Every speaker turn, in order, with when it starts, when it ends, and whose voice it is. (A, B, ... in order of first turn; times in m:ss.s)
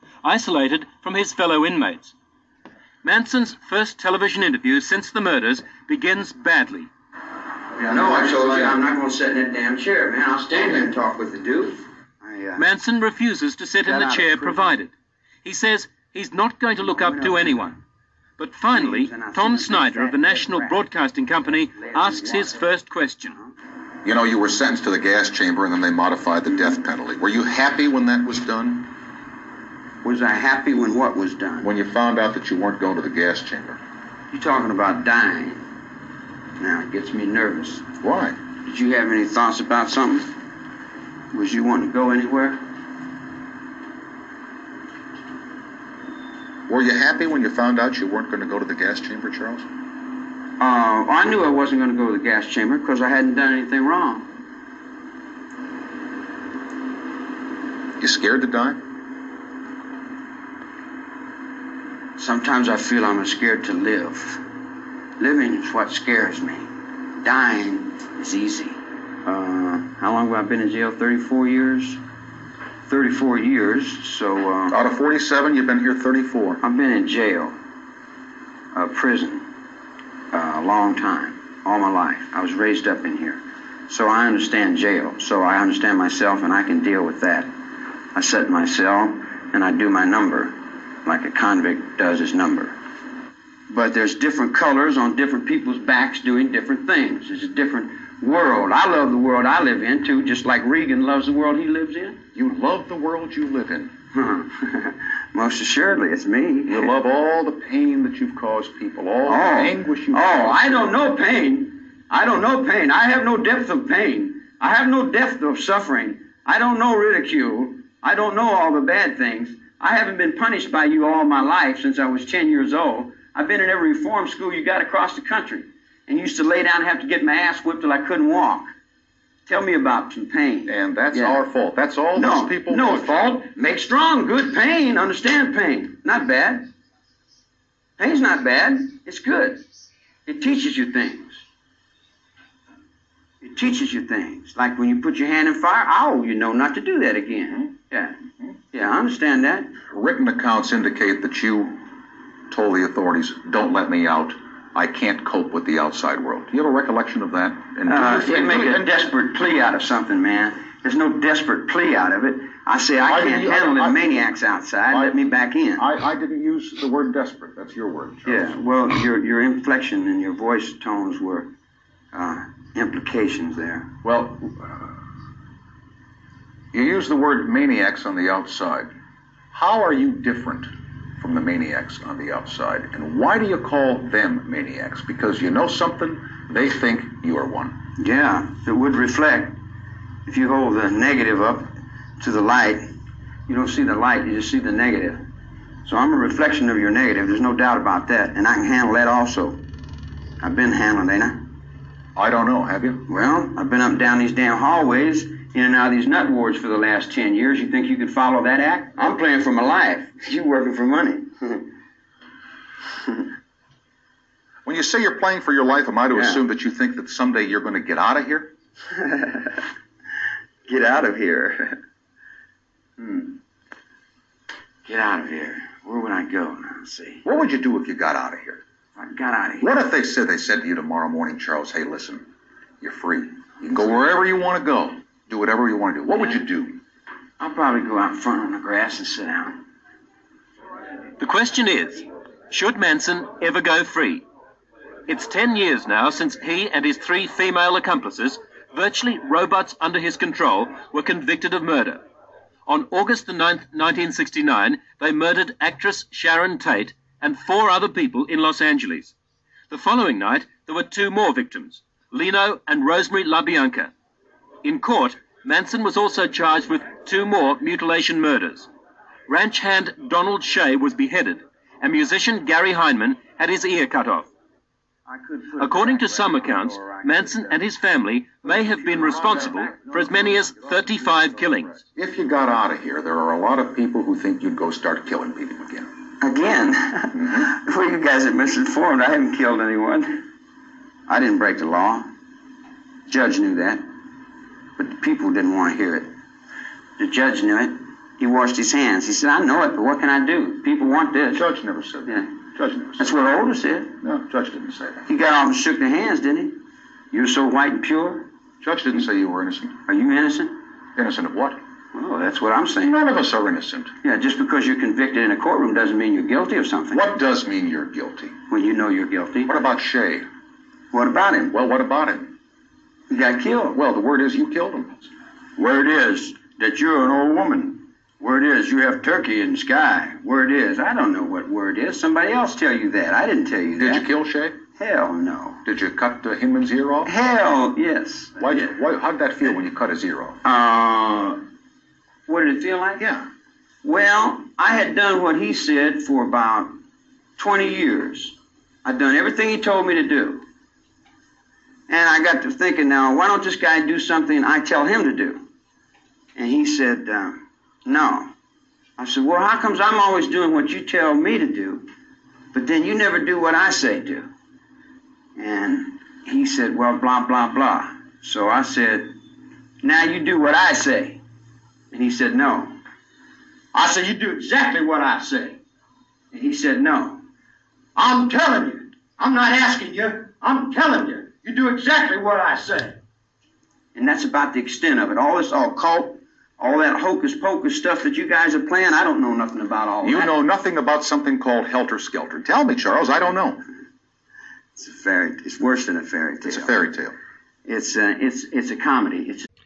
0:00.2-0:02.1 A
0:03.0-0:06.9 A
0:07.7-0:12.6 B
0:12.6-0:14.9 A
0:13.8-0:14.8 B
0:15.4-0:17.7 A
0:16.8-0:17.8 B
0:18.4-0:23.4 A
0:18.7-0:20.8 B
0:21.7-0:22.6 B
0:24.0-0:28.9 C
0:30.0-0:31.7 B
0:31.6-0:33.8 C
0:34.3-0:35.7 B
0:36.6-0:37.9 B
0:38.0-0:38.4 C
0:38.6-0:40.3 B
0:41.3-0:42.6 B
0:46.7-0:49.6 C
0:50.6-0:54.3 B
0:58.0-0:58.8 C
1:02.2-1:04.4 B
1:05.2-1:06.7 B
1:07.2-1:12.0 B
1:12.9-1:14.8 B
1:14.7-1:16.6 C
1:16.6-1:17.6 B
1:18.7-1:19.4 B
1:20.3-1:27.5 B
1:28.1-1:32.8 B
1:33.7-1:42.2 B
1:42.3-1:43.9 C
1:44.1-1:46.9 B
1:46.7-1:50.9 C
1:49.2-2:08.7 B
2:09.5-2:11.4 B
2:10.7-2:13.4 C
2:12.1-2:16.7 B
2:18.0-2:19.6 B
2:20.2-2:21.4 B
2:23.4-2:28.2 B
2:28.7-2:29.8 B
2:29.9-2:31.8 C
2:32.5-2:38.9 C
2:37.9-2:45.9 B
2:43.0-2:44.3 C
2:44.9-2:45.2 C
2:45.8-2:48.5 C
2:48.2-2:51.5 B
2:52.1-2:53.9 B
2:54.0-2:54.8 C
2:56.7-2:58.9 C
2:59.5-3:07.8 C
3:08.0-3:09.6 B
3:10.2-3:12.8 B
3:13.5-3:15.2 B
3:15.8-3:19.6 B
3:20.4-3:21.4 B
3:22.2-3:23.0 C
3:23.1-3:31.7 B
3:34.6-3:38.5 C
3:36.1-3:36.4 B
3:39.0-3:39.6 B
3:40.7-3:41.8 B
3:43.0-3:43.4 B
3:44.8-3:47.2 B
3:47.2-3:48.6 C
3:49.0-3:49.8 B
3:49.6-3:52.2 C
3:52.8-3:56.8 C
3:57.4-3:59.6 B
4:01.2-4:04.2 A
4:05.1-4:12.0 A
4:12.7-4:19.1 A
4:19.7-4:23.9 A
4:24.6-4:28.7 A
4:29.3-4:34.3 A
4:35.1-4:37.6 B
4:35.6-4:41.8 A
4:38.4-4:45.9 C
4:39.2-4:39.5 B
4:46.2-4:50.2 B
4:47.2-4:47.4 C
4:51.1-4:52.1 B
4:53.1-4:53.8 B
4:54.8-4:56.1 B
4:57.0-5:01.5 B
5:01.3-5:03.1 C
5:03.0-5:04.0 B
5:04.0-5:05.0 C
5:05.1-5:06.6 B
5:07.1-5:08.3 B
5:08.6-5:09.8 C
5:09.9-5:10.6 B
5:11.0-5:11.6 C
5:11.9-5:12.9 B
5:12.8-5:13.9 C
5:14.0-5:17.1 B
5:16.9-5:18.4 C
5:18.5-5:19.8 B
5:19.4-5:20.2 C
5:20.9-5:21.6 B
5:21.5-5:22.3 C
5:23.1-5:23.8 B
5:23.8-5:25.1 C
5:25.6-5:34.1 B
5:33.8-5:34.6 C
5:34.7-5:35.6 B
5:35.6-5:37.1 C
5:37.1-5:38.7 B
5:38.4-5:40.4 C
5:40.4-5:41.4 B
5:42.3-5:43.0 B
5:43.0-5:43.2 C
5:43.8-5:46.8 B
5:47.4-5:50.4 B
5:51.9-5:55.4 B
5:56.4-5:58.3 B
5:59.0-6:01.9 B
6:02.5-6:04.3 B
6:05.4-6:09.1 B
6:09.8-6:11.2 B
6:11.9-6:12.8 B
6:13.7-6:15.6 B
6:16.3-6:17.2 B
6:18.0-6:23.0 B
6:23.9-6:30.4 B
6:30.0-6:33.6 C
6:34.8-6:36.9 B
6:36.5-6:37.1 C
6:37.7-6:39.4 B